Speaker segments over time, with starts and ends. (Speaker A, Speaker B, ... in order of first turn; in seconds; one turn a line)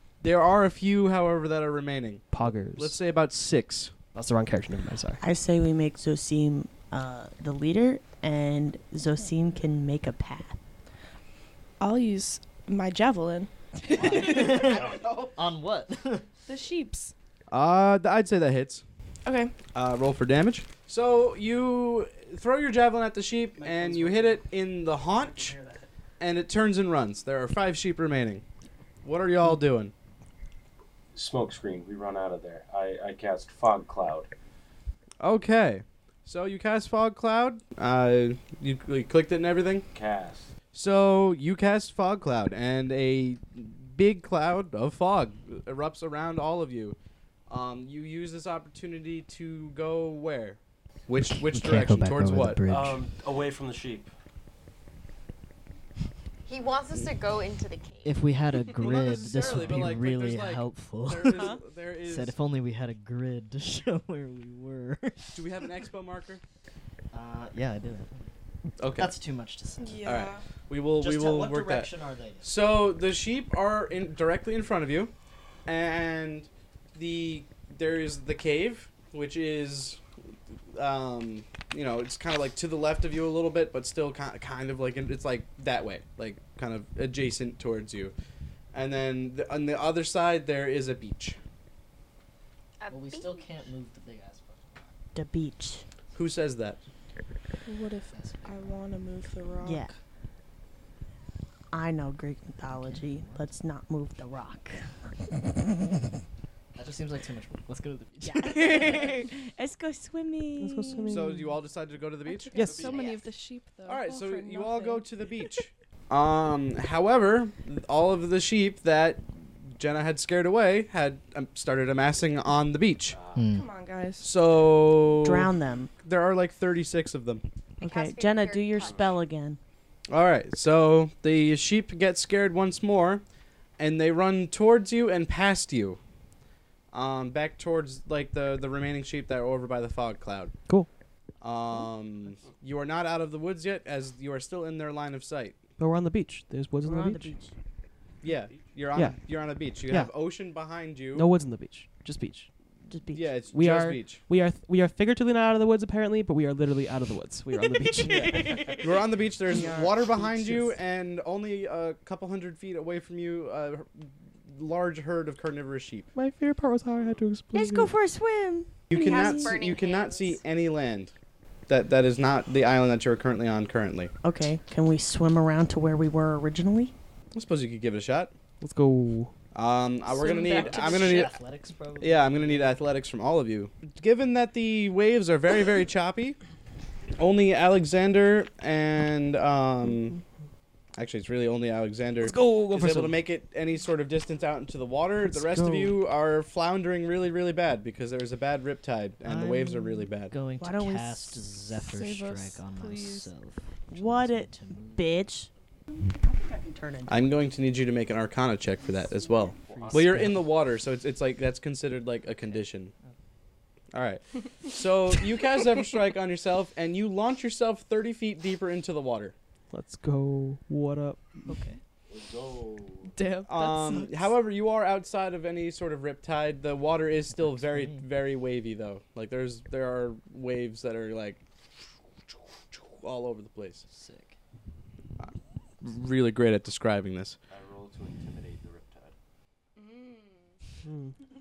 Speaker A: 0.2-4.0
Speaker B: 2.3-3.0
Speaker B: 4.1-5.2
Speaker C: 5.2-10.6
Speaker D: 11.8-14.8
Speaker E: 13.9-16.3
Speaker F: 14.7-15.0
Speaker D: 16.5-17.1
Speaker A: 17.5-18.8
Speaker D: 19.2-19.6
Speaker A: 19.7-25.6
Speaker E: 23.6-24.5
Speaker E: 25.1-25.8
Speaker A: 26.2-28.4
Speaker A: 29.0-29.9
Speaker F: 31.1-34.3
Speaker A: 35.2-39.9
Speaker F: 39.9-40.5
Speaker A: 40.7-47.0
Speaker A: 47.5-52.6
Speaker E: 51.2-53.0
Speaker F: 52.7-54.1
Speaker G: 56.5-58.2
Speaker E: 58.0-65.8
Speaker A: 58.8-62.4
Speaker C: 61.3-61.6
Speaker A: 65.3-66.4
Speaker E: 67.1-68.3
Speaker A: 68.8-69.1
Speaker E: 69.0-70.2
Speaker D: 69.8-70.4
Speaker A: 70.0-71.9
Speaker E: 71.0-72.5
Speaker A: 72.4-75.1
Speaker A: 75.7-80.0
Speaker A: 80.7-88.1
Speaker A: 88.7-91.4
Speaker G: 92.8-93.5
Speaker E: 92.9-94.9
Speaker C: 95.2-95.9
Speaker A: 96.1-96.8
Speaker D: 97.7-100.0
Speaker E: 98.1-98.7
Speaker C: 99.6-99.9
Speaker C: 101.7-104.9
Speaker E: 102.8-103.4
Speaker E: 106.8-109.2
Speaker C: 108.2-111.2
Speaker B: 110.6-111.5
Speaker A: 111.1-113.0
Speaker D: 112.2-115.1
Speaker B: 112.5-112.9
Speaker G: 112.7-113.3
Speaker A: 113.9-123.2
Speaker F: 123.1-123.5
Speaker E: 123.3-123.7
Speaker D: 123.5-124.3
Speaker A: 124.2-127.5
Speaker C: 125.2-125.9
Speaker C: 127.8-129.6
Speaker G: 127.8-129.1
Speaker F: 128.8-129.1
Speaker A: 130.1-133.2
Speaker A: 133.8-136.0
Speaker A: 136.9-140.6
Speaker A: 141.4-145.6
Speaker B: 145.8-147.3
Speaker C: 146.8-147.5
Speaker A: 148.2-151.3
Speaker F: 148.3-148.7
Speaker B: 148.9-149.2
Speaker B: 149.9-150.1
Speaker B: 151.1-152.5
Speaker C: 152.9-153.3
Speaker A: 153.1-154.2
Speaker B: 153.5-158.8
Speaker F: 158.0-159.0
Speaker A: 158.8-166.1
Speaker C: 159.5-160.7
Speaker B: 166.2-167.9
Speaker C: 167.5-169.6
Speaker A: 168.9-171.1
Speaker G: 169.0-170.4
Speaker A: 171.7-174.1
Speaker C: 174.2-176.9
Speaker A: 177.3-178.3
Speaker B: 178.6-179.3
Speaker A: 179.5-181.3
Speaker D: 180.1-181.3
Speaker E: 180.2-182.9
Speaker A: 182.0-186.4
Speaker A: 187.2-190.2
Speaker A: 191.0-200.3
Speaker B: 192.2-193.2
Speaker B: 195.2-196.0
Speaker E: 199.2-205.2
Speaker C: 200.6-201.4
Speaker D: 201.8-203.3
Speaker C: 203.9-205.5
Speaker C: 206.3-207.4
Speaker A: 207.1-212.9
Speaker C: 208.8-209.8
Speaker F: 209.6-210.1
Speaker E: 209.8-210.5
Speaker A: 213.9-219.3
Speaker B: 219.7-221.7
Speaker E: 221.5-221.8
Speaker F: 222.1-223.1
Speaker D: 223.1-224.3
Speaker A: 223.5-231.4
Speaker E: 227.3-228.1
Speaker A: 232.7-233.8
Speaker E: 233.9-234.4
Speaker A: 235.2-237.4
Speaker F: 237.5-239.1
Speaker D: 239.8-240.5
Speaker B: 240.9-241.2